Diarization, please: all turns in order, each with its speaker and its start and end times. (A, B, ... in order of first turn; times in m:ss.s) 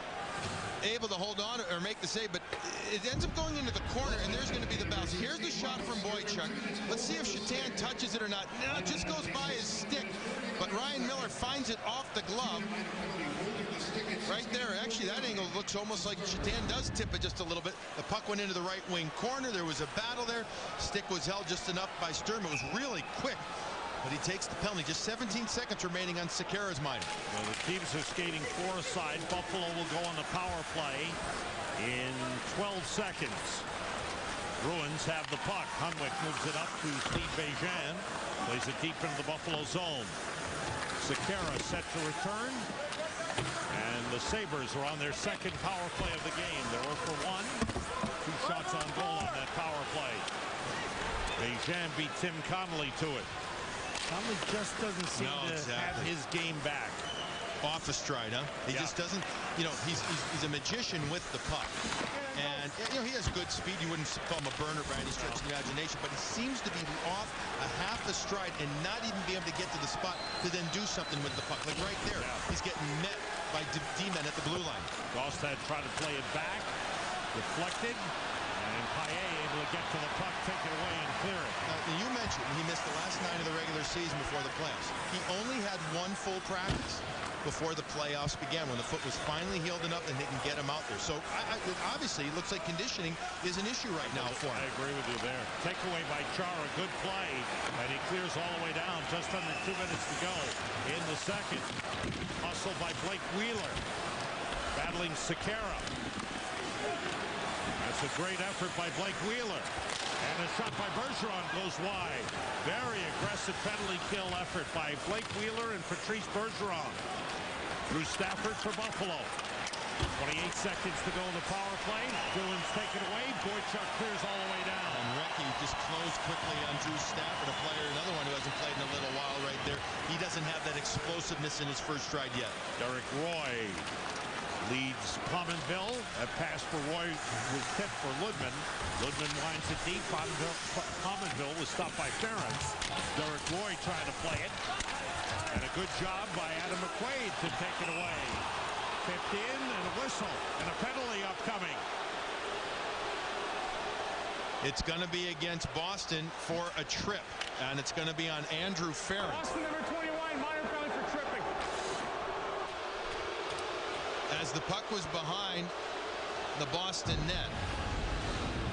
0:00.8-0:12.7 A
0:14.2-0:23.4 A
0:24.0-0:27.1 A
0:27.3-0:31.2 B
0:31.8-0:33.7 B
0:34.6-0:40.2 B
0:41.0-0:42.7 B
0:43.7-0:47.6 B
0:48.2-0:50.3 B
0:51.4-0:53.3 B
0:54.1-0:57.0 B
0:55.1-0:56.1 A
0:57.6-1:01.8 A
0:58.7-0:59.0 B
1:02.1-1:02.7 B
1:02.3-1:14.9 A
1:05.2-1:05.4 B
1:12.1-1:12.4 B
1:15.1-1:16.7 B
1:17.3-1:21.6 B
1:21.6-1:34.7 A
1:34.0-1:41.8 B
1:42.4-1:43.8 B
1:44.7-1:45.9 B
1:47.8-1:49.7 B
1:50.2-1:57.0 B
1:57.9-1:59.3 B
2:00.1-2:05.1 B
2:04.9-2:12.6 A
2:12.8-2:13.9 B
2:14.6-2:24.6 B
2:25.5-2:28.5 B
2:29.0-2:31.8 B
2:34.6-2:39.5 A
2:39.2-2:41.5 C
2:44.3-2:45.7 A
2:46.6-2:47.6 A